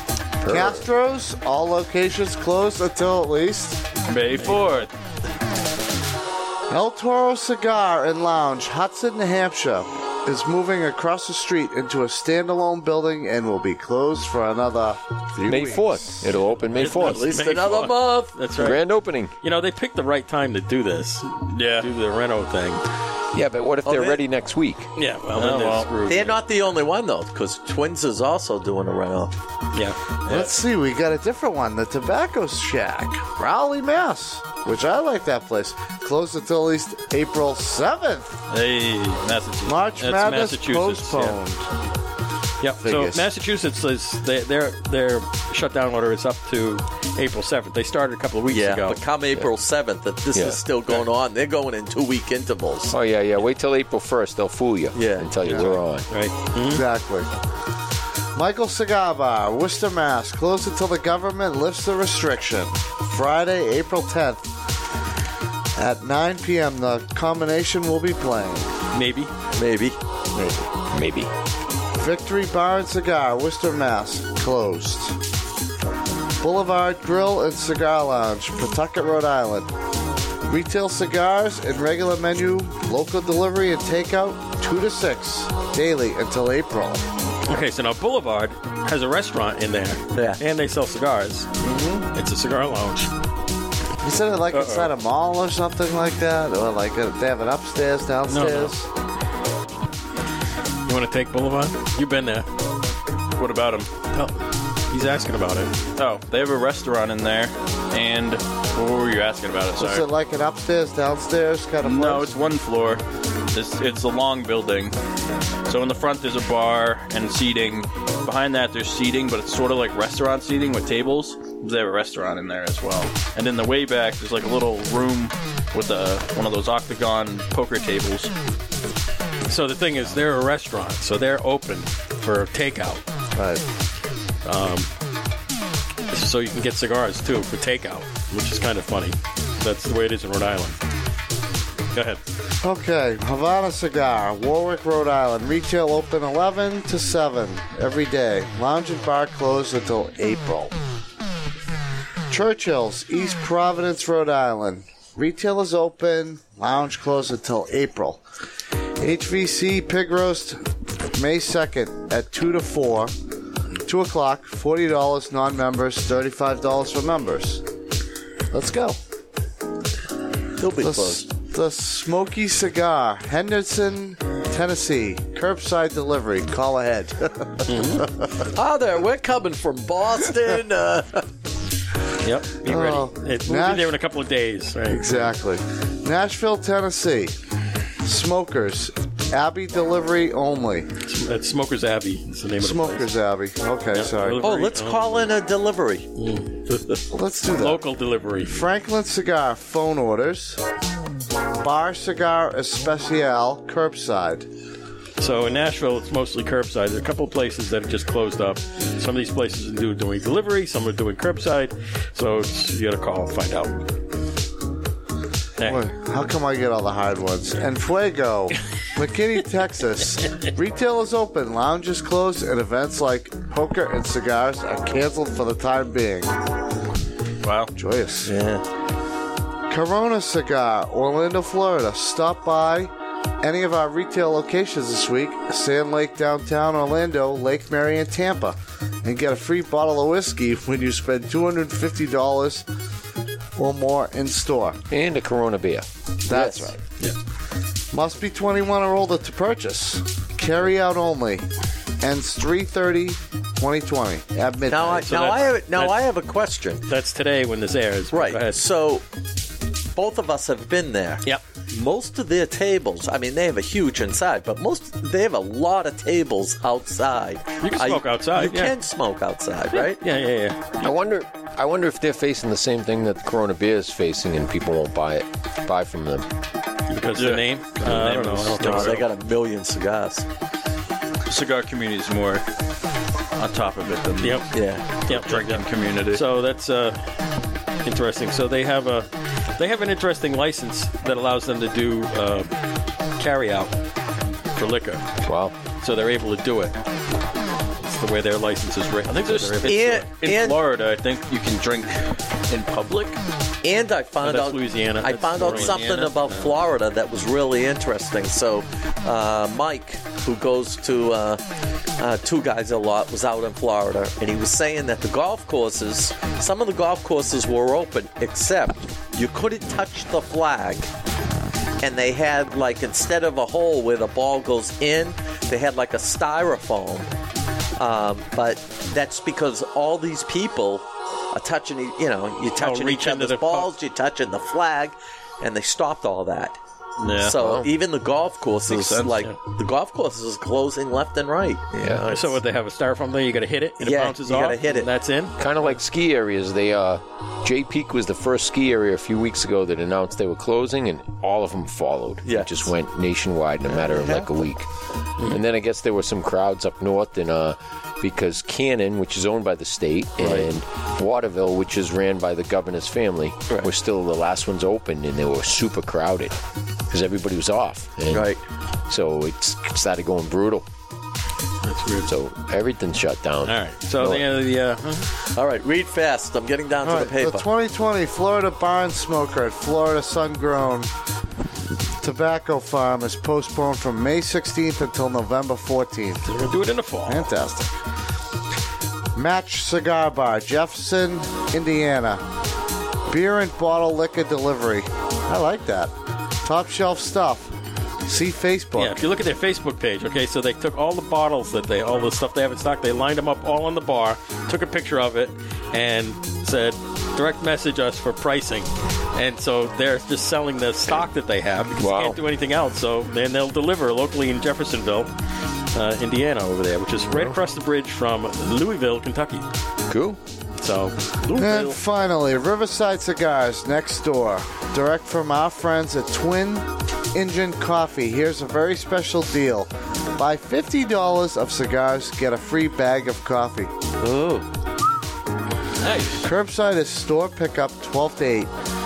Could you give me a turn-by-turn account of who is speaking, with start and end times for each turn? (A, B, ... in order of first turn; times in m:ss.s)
0:00.4-0:03.8 A
0:04.1-0:04.9 B
0:04.4-0:04.8 C
0:06.7-0:16.3 A
0:15.4-0:17.4 D
0:16.8-0:18.8 C
0:16.8-0:18.3 E
0:18.6-0:19.3 D
0:19.4-0:22.8 C
0:21.5-0:21.9 B
0:23.3-0:24.9 D
0:23.9-0:24.2 E
0:25.0-0:26.4 C
0:25.4-0:25.9 B
0:26.1-0:29.4 E
0:30.3-0:30.5 B
0:30.3-0:38.4 A
0:38.5-0:39.8 B
0:39.6-0:41.7 A
0:40.0-0:41.4 C
0:42.6-0:49.0 C
0:42.8-0:43.3 A
0:48.5-0:52.9 E
0:50.3-0:50.6 D
0:52.9-0:56.1 D
0:54.9-0:55.7 E
0:56.1-0:56.8 C
0:56.6-0:57.3 A
0:58.4-1:04.5 A
1:05.8-1:08.7 A
1:08.9-1:09.3 C
1:09.6-1:10.0 E
1:10.4-1:10.7 A
1:10.9-1:11.3 D
1:12.0-1:15.2 A
1:16.4-1:19.7 A
1:20.5-1:27.1 A
1:27.5-1:31.5 C
1:30.1-1:30.4 E
1:31.6-1:32.0 A
1:32.1-1:33.1 C
1:34.0-1:38.9 A
1:34.5-1:34.9 C
1:38.3-1:38.7 C
1:40.9-1:42.5 C
1:43.4-1:43.9 B
1:44.1-1:45.7 C
1:46.0-1:50.1 B
1:49.8-1:52.4 A
1:51.8-1:55.0 B
1:55.7-2:08.3 B
2:09.5-2:13.0 C
2:13.3-2:13.6 A
2:14.4-2:14.9 C
2:16.1-2:20.8 C
2:21.9-2:22.2 C
2:22.6-2:30.8 A
2:32.3-2:38.2 A
2:39.0-2:43.1 A
2:43.8-2:47.6 A
2:48.5-2:49.0 A
2:50.6-2:51.3 E
2:50.8-2:58.3 A
2:57.7-2:58.1 C
2:58.5-3:01.3 E
3:02.2-3:05.0 C
3:02.6-3:04.0 A
3:04.9-3:07.4 A
3:08.0-3:10.9 A
3:11.0-3:13.1 C
3:12.6-3:14.5 A
3:13.9-3:15.0 C
3:14.4-3:16.1 E
3:16.2-3:18.6 C
3:17.1-3:17.8 A
3:18.4-3:20.6 A
3:21.6-3:24.5 A
3:25.2-3:33.8 C
3:35.6-3:35.9 C
3:35.6-3:46.4 A
3:47.4-3:47.7 B
3:47.8-3:48.3 A
3:48.2-3:48.6 E
3:49.7-4:02.7 A
4:03.6-4:04.8 A
4:04.9-4:05.9 D
4:06.3-4:06.8 A
4:06.3-4:06.7 E
4:07.9-4:11.5 A
4:12.0-4:15.2 A
4:14.7-4:16.8 E
4:15.0-4:16.0 C
4:16.9-4:18.6 C
4:18.1-4:19.0 E
4:20.0-4:30.0 E
4:27.6-4:28.7 C
4:29.7-4:30.6 C
4:30.8-4:36.3 D
4:36.9-4:39.0 C
4:37.2-4:39.0 B
4:38.6-4:40.3 E
4:41.3-4:42.4 B
4:43.4-4:44.4 B
4:44.2-4:44.5 C
4:44.5-4:45.3 E
4:45.1-4:46.2 B
4:45.1-4:47.1 C
4:47.8-4:52.5 C
4:53.2-4:53.8 C
4:54.6-4:55.1 C
4:55.2-4:55.6 D
4:55.8-4:56.8 C
4:57.8-5:00.1 C
4:59.1-5:03.2 B
4:59.6-5:00.6 E
5:03.6-5:11.4 E
5:04.2-5:06.5 C
5:05.4-5:06.2 B
5:12.0-5:20.9 E
5:21.8-5:27.1 E
5:27.8-5:36.6 E
5:32.6-5:33.7 C
5:37.0-5:37.4 B
5:37.2-5:42.4 E
5:37.3-5:37.7 D
5:38.7-5:39.3 B
5:41.8-5:42.1 D
5:42.1-5:45.4 C
5:43.8-5:44.9 E
5:45.4-5:54.7 D
5:52.2-5:52.7 E
5:53.7-5:54.3 E
5:55.2-6:06.4 D
6:00.2-6:00.5 E
6:06.9-6:08.3 D
6:08.1-6:08.4 E
6:08.9-6:10.7 D
6:11.6-6:12.1 C
6:12.1-6:14.3 D
6:13.4-6:15.1 C
6:15.2-6:17.5 E
6:16.8-6:20.9 A
6:22.0-6:26.2 A
6:26.2-6:27.3 C
6:27.1-6:27.8 A
6:29.2-6:32.2 A
6:33.1-6:37.5 A
6:38.0-6:39.0 A
6:38.8-6:55.1 C
6:51.8-6:52.2 D
6:55.7-6:59.5 C
6:57.1-6:57.4 D
6:59.9-7:00.2 D
7:00.6-7:01.4 C
7:01.3-7:01.8 B
7:01.3-7:13.7 A
7:14.0-7:14.5 E
7:15.8-7:16.3 B
7:16.2-7:18.5 A